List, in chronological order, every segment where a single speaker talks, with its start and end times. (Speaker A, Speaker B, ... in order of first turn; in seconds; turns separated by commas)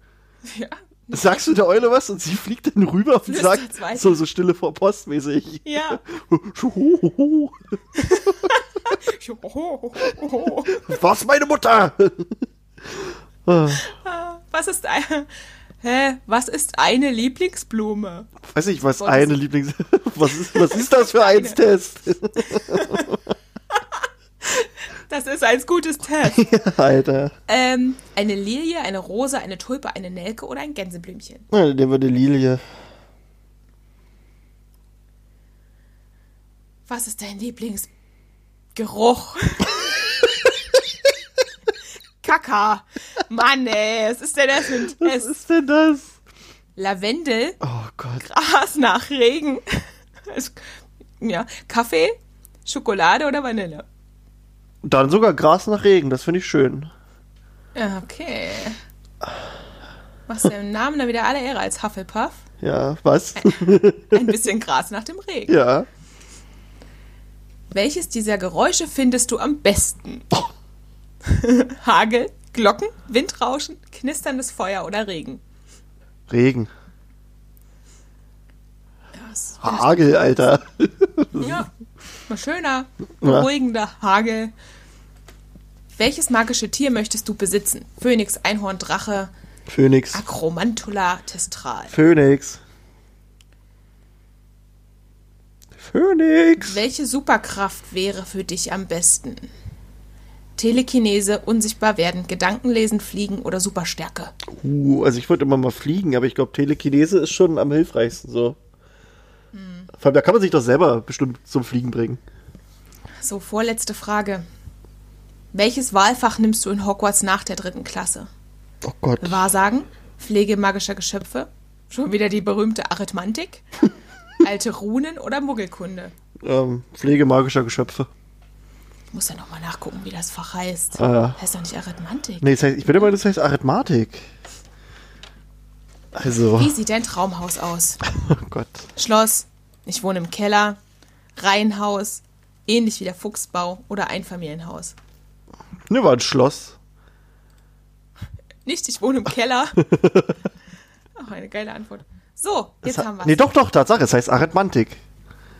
Speaker A: 0.4-1.4, Speaker B: 1.1-8.5, Speaker A: 3.2-4.2, Speaker A: 5.6-6.0, Speaker A: 8.0-10.8, Speaker B: 10.7-13.8, Speaker A: 13.7-18.3, Speaker B: 18.4-23.2, Speaker A: 19.0-19.3, Speaker A: 20.5-21.6, Speaker A: 22.5-23.1, Speaker A: 23.7-26.5, Speaker B: 26.3-27.3, Speaker A: 27.5-31.4, Speaker B: 31.5-32.6, Speaker A: 36.9-37.9, Speaker A: 38.7-39.9, Speaker A: 42.2-45.3, Speaker B: 44.9-46.1, Speaker A: 46.8-47.6, Speaker B: 47.6-48.2, Speaker A: 48.2-53.9, Speaker B: 54.8-56.9, Speaker A: 57.7-58.8, Speaker A: 60.3-62.4, Speaker B: 62.6-64.3, Speaker A: 63.4-65.6, Speaker B: 65.5-65.9, Speaker A: 67.7-70.3, Speaker A: 71.2-75.4, Speaker B: 76.3-76.7, Speaker A: 79.1-80.3, Speaker B: 79.6-81.6, Speaker A: 81.4-81.7, Speaker A: 82.3-84.5, Speaker B: 83.2-83.5, Speaker A: 85.9-89.3, Speaker B: 89.7-90.2, Speaker A: 90.1-91.9, Speaker B: 91.9-92.6, Speaker B: 95.8-96.8, Speaker A: 96.6-99.5, Speaker A: 100.6-104.3, Speaker B: 104.5-108.6, Speaker A: 109.5-109.9, Speaker B: 110.0-112.2, Speaker A: 113.2-114.4, Speaker A: 115.5-118.3, Speaker B: 118.8-119.4, Speaker A: 119.2-123.6, Speaker A: 124.4-126.1, Speaker B: 126.4-128.1, Speaker A: 129.1-132.4, Speaker B: 131.0-131.4, Speaker B: 132.4-134.3, Speaker B: 136.1-136.7, Speaker A: 136.5-138.0, Speaker B: 138.2-138.9, Speaker A: 138.9-140.8, Speaker A: 141.4-144.9, Speaker B: 145.9-146.8, Speaker A: 148.6-149.8, Speaker B: 149.8-150.3, Speaker A: 151.1-153.4, Speaker B: 152.9-155.0